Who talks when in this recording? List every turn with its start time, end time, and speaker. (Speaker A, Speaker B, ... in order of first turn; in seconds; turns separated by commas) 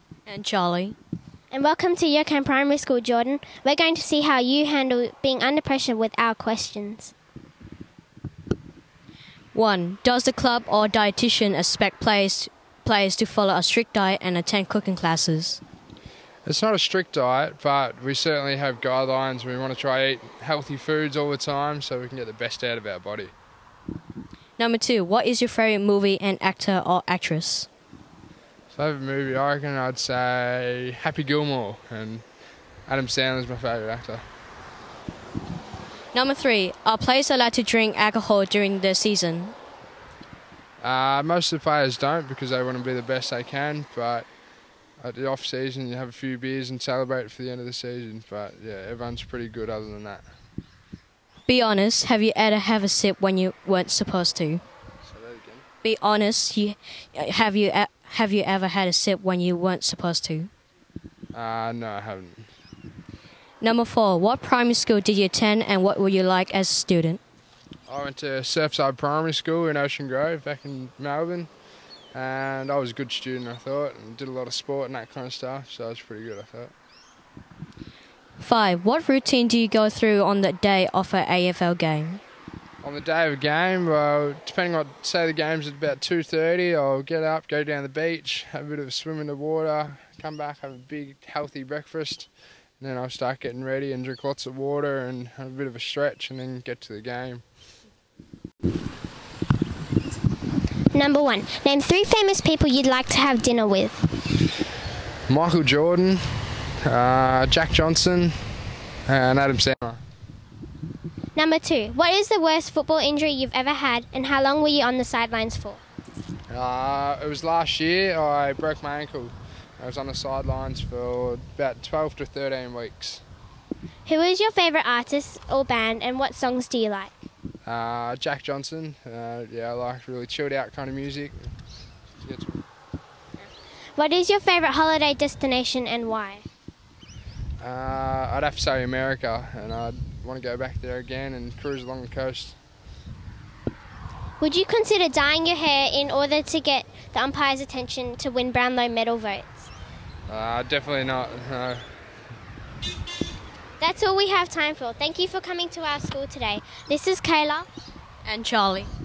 Speaker A: 0.3-1.0, Speaker B: 1.5-7.1, Speaker A: 9.5-15.6, Speaker C: 16.4-23.3, Speaker A: 24.6-27.7, Speaker C: 28.7-32.2, Speaker C: 32.9-34.3, Speaker A: 36.1-39.5, Speaker C: 40.8-44.3, Speaker C: 45.0-50.3, Speaker A: 51.5-54.6, Speaker C: 55.0-55.6, Speaker A: 55.8-60.5, Speaker C: 61.3-62.5, Speaker A: 63.6-67.2, Speaker C: 67.9-71.5, Speaker C: 72.1-76.7, Speaker A: 78.4-82.2, Speaker C: 82.8-92.3, Speaker C: 92.8-97.4, Speaker B: 100.9-104.1, Speaker C: 105.3-108.4, Speaker C: 109.1-110.0, Speaker B: 111.3-115.8, Speaker C: 116.5-123.2, Speaker B: 124.1-127.2, Speaker C: 127.7-131.6, Speaker C: 132.2-132.6, Speaker B: 134.0-136.5, Speaker C: 137.6-142.6, Speaker B: 144.4-149.7, Speaker C: 150.3-151.9, Speaker B: 153.8-157.7, Speaker A: 158.2-158.9